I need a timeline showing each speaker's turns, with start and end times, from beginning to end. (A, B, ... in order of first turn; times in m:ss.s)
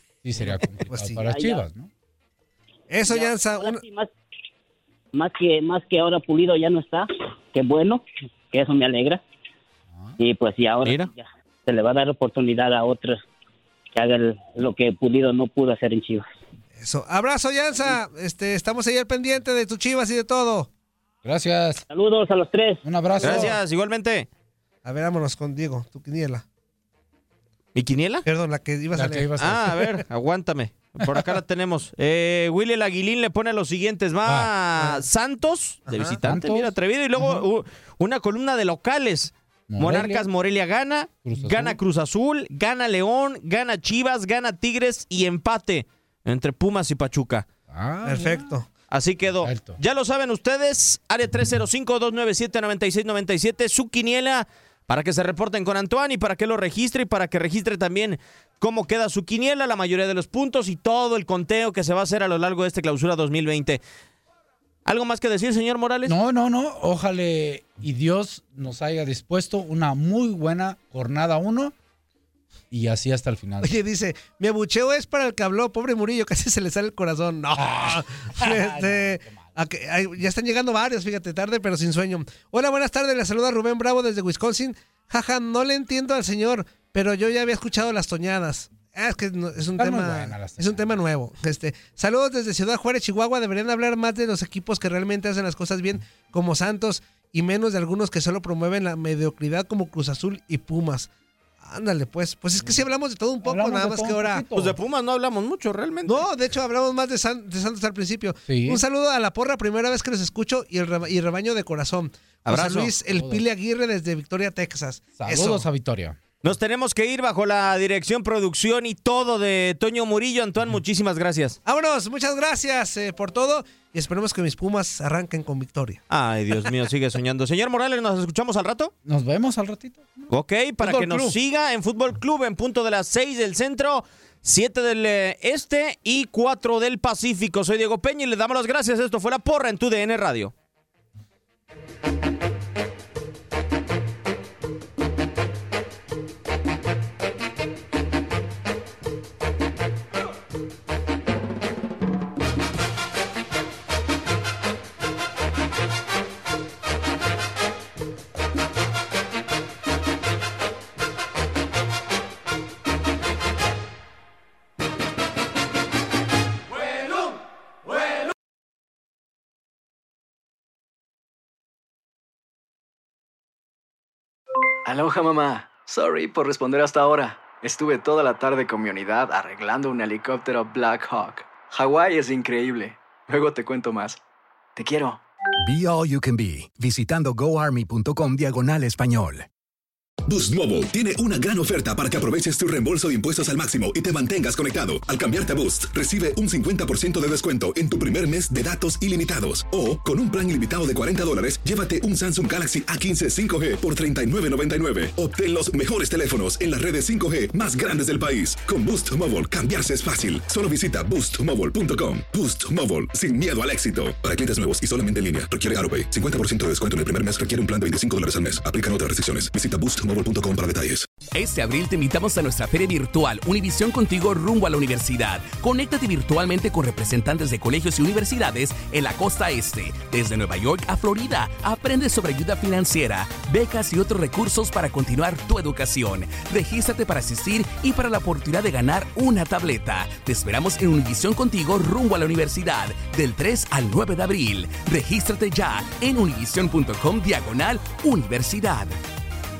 0:00.2-0:01.9 A
0:00.9-0:01.3 B
0:01.2-0:01.6 C
0:02.9-0:03.8 B
0:03.0-0:04.1 C
0:05.1-0:09.2 C
0:10.2-0:13.2 C
0:10.8-0:11.1 D
0:13.9-0:16.2 C
0:16.8-0:20.7 B
0:21.2-0:21.8 A
0:21.9-0:22.8 C
0:22.8-0:23.6 A
0:23.2-0:24.3 D
0:24.8-0:26.4 B
0:27.7-0:28.2 D
0:28.2-0:29.3 B
0:28.9-0:30.0 A
0:29.4-0:47.4 D
0:34.2-0:34.5 A
0:35.9-0:36.2 B
0:36.2-0:37.4 A
0:39.7-0:40.3 A
0:41.2-0:41.8 A
0:47.7-0:48.5 A
0:48.0-0:48.6 B
0:48.9-1:03.8 D
0:49.4-0:49.8 A
1:04.8-1:06.1 D
1:06.0-1:11.7 A
1:12.7-1:13.8 A
1:13.6-1:41.1 B
1:17.5-1:19.5 A
1:29.8-1:30.9 A
1:41.6-1:44.4 B
1:43.4-1:44.8 A
1:44.6-1:46.2 D
1:46.0-1:55.6 B
1:48.5-1:48.8 A
1:52.4-1:52.9 D
1:53.1-1:53.4 A
1:55.2-1:56.2 A
1:56.4-2:01.6 D
2:01.6-2:06.0 B
2:06.1-2:08.9 D
2:09.0-2:11.4 A
2:10.3-2:20.5 D
2:54.8-3:04.2 E
3:04.8-3:05.2 E
3:05.6-3:09.5 F
3:10.3-3:41.1 G
3:41.2-4:09.0 H